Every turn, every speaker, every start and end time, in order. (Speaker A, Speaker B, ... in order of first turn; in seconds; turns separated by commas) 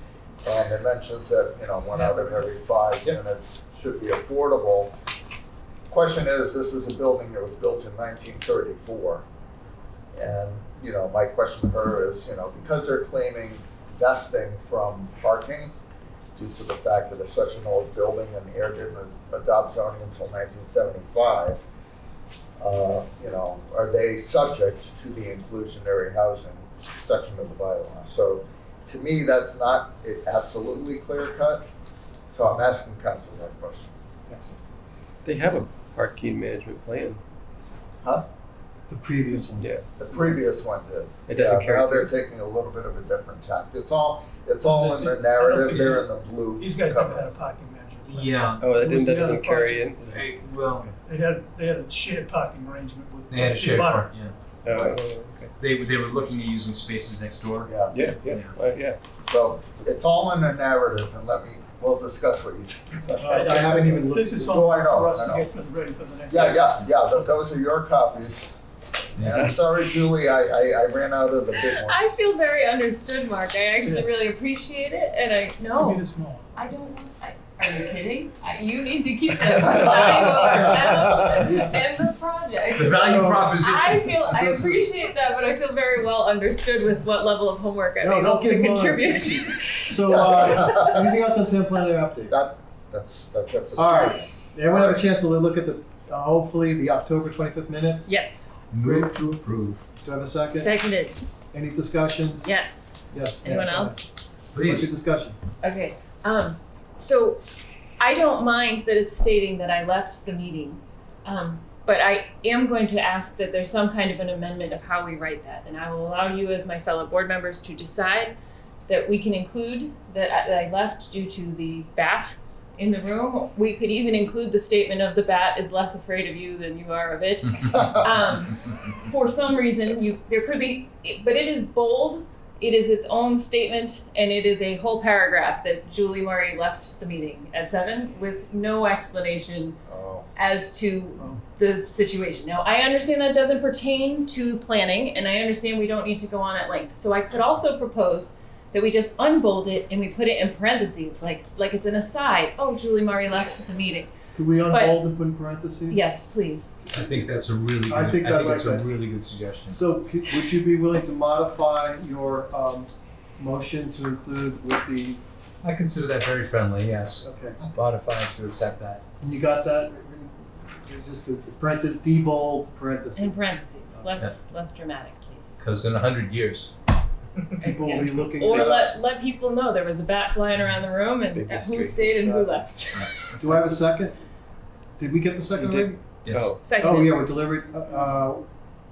Speaker A: 0.4-5.0, Speaker A: 5.9-9.2, Speaker A: 10.2-15.7, Speaker A: 16.4-21.6, Speaker A: 22.6-31.7, Speaker A: 32.3-33.9, Speaker B: 34.3-34.6, Speaker C: 35.2-37.2, Speaker B: 38.9-40.5, Speaker C: 39.6-39.9, Speaker A: 40.0-47.2, Speaker C: 41.3-42.1, Speaker D: 44.7-46.0, Speaker D: 46.6-49.9, Speaker E: 48.1-48.7, Speaker C: 48.6-51.0, Speaker E: 50.1-50.9, Speaker D: 51.0-54.1, Speaker E: 53.3-54.4, Speaker C: 54.6-55.5, Speaker E: 55.6-58.5, Speaker A: 57.7-58.1, Speaker C: 57.9-59.0, Speaker A: 59.3-65.5, Speaker D: 63.2-67.2, Speaker B: 63.3-64.6, Speaker A: 66.3-68.6, Speaker E: 69.2-69.5, Speaker A: 69.2-72.1, Speaker F: 71.6-90.0, Speaker D: 75.8-76.5, Speaker B: 80.4-81.8, Speaker E: 82.7-84.2, Speaker B: 83.0-83.7, Speaker B: 84.2-84.9, Speaker B: 88.0-89.2, Speaker B: 89.8-92.3, Speaker A: 90.1-91.1, Speaker A: 92.3-95.1, Speaker B: 93.8-98.2, Speaker F: 98.0-98.5, Speaker E: 98.7-99.8, Speaker B: 98.8-99.4, Speaker B: 100.0-100.8, Speaker F: 100.6-101.2, Speaker B: 101.5-102.4, Speaker F: 102.4-102.8, Speaker B: 103.1-104.0, Speaker F: 103.3-104.0, Speaker E: 104.5-105.0, Speaker B: 104.6-105.4, Speaker F: 105.6-107.4, Speaker F: 108.0-118.4, Speaker F: 118.9-139.8, Speaker A: 139.9-140.3, Speaker F: 140.4-154.1, Speaker B: 154.3-156.2, Speaker F: 154.7-155.1, Speaker F: 155.9-156.7, Speaker B: 156.8-158.9, Speaker E: 156.9-159.8, Speaker B: 159.7-165.2, Speaker E: 165.6-169.0, Speaker B: 167.2-167.6, Speaker B: 169.2-174.1, Speaker F: 173.2-175.5, Speaker E: 175.6-176.7, Speaker F: 177.6-183.4, Speaker B: 177.6-178.9, Speaker C: 178.4-178.8, Speaker C: 181.3-182.1, Speaker B: 182.1-182.7, Speaker B: 183.4-184.2, Speaker B: 185.0-186.0, Speaker C: 185.5-186.8, Speaker E: 186.2-186.6, Speaker F: 186.6-187.3, Speaker B: 186.8-188.4